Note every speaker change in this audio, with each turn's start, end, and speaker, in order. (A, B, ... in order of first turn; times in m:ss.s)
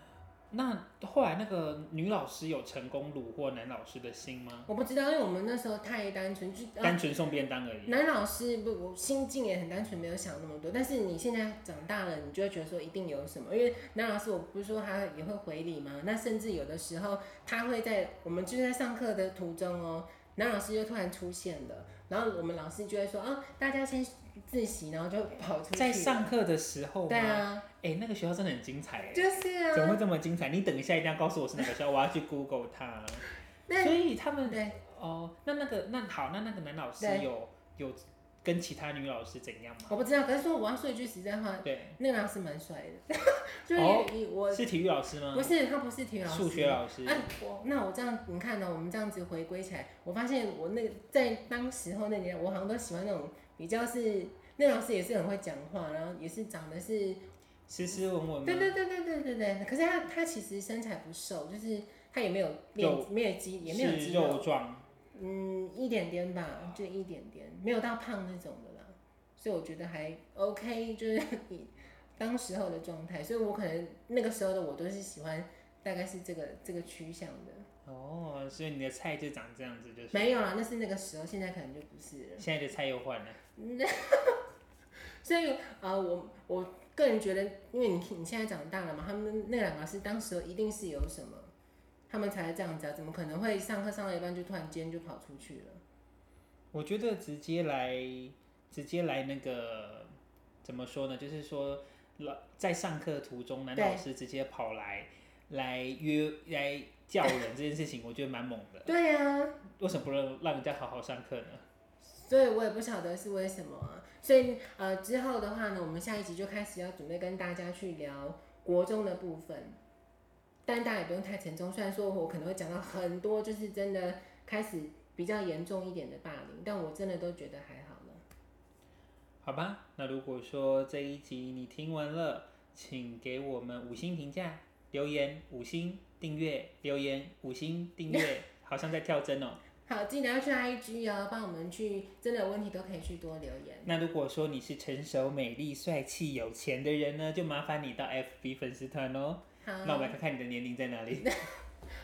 0:00.5-0:04.7 A
0:04.7-0:07.0 B
0:06.8-0:08.0 A
0:07.8-0:26.3 B
0:25.7-0:33.2 A
0:27.1-0:27.6 B
0:29.1-0:30.0 B
0:33.7-0:34.8 B
0:33.8-0:40.0 A
0:37.0-0:37.2 B
0:39.9-0:44.6 B
0:41.6-0:42.0 A
0:43.8-0:45.5 A
0:45.3-0:57.2 B
0:46.2-0:47.2 A
0:57.7-0:58.7 A
0:58.4-1:04.5 B
1:02.8-1:03.1 A
1:03.6-1:04.8 A
1:05.1-1:17.7 B
1:17.8-1:20.4 A
1:20.1-1:22.4 B
1:22.4-1:23.4 A
1:23.6-1:24.4 B
1:25.2-1:31.5 B
1:32.1-1:35.8 B
1:36.7-1:40.1 A
1:40.6-1:48.9 A
1:43.7-1:44.0 B
1:48.8-1:49.6 B
1:49.7-1:51.6 A
1:52.0-1:59.8 B
2:00.7-2:08.2 B
2:09.4-2:19.6 A
2:19.8-2:23.9 B
2:23.8-2:31.4 A
2:29.6-2:30.1 B
2:31.2-2:31.5 B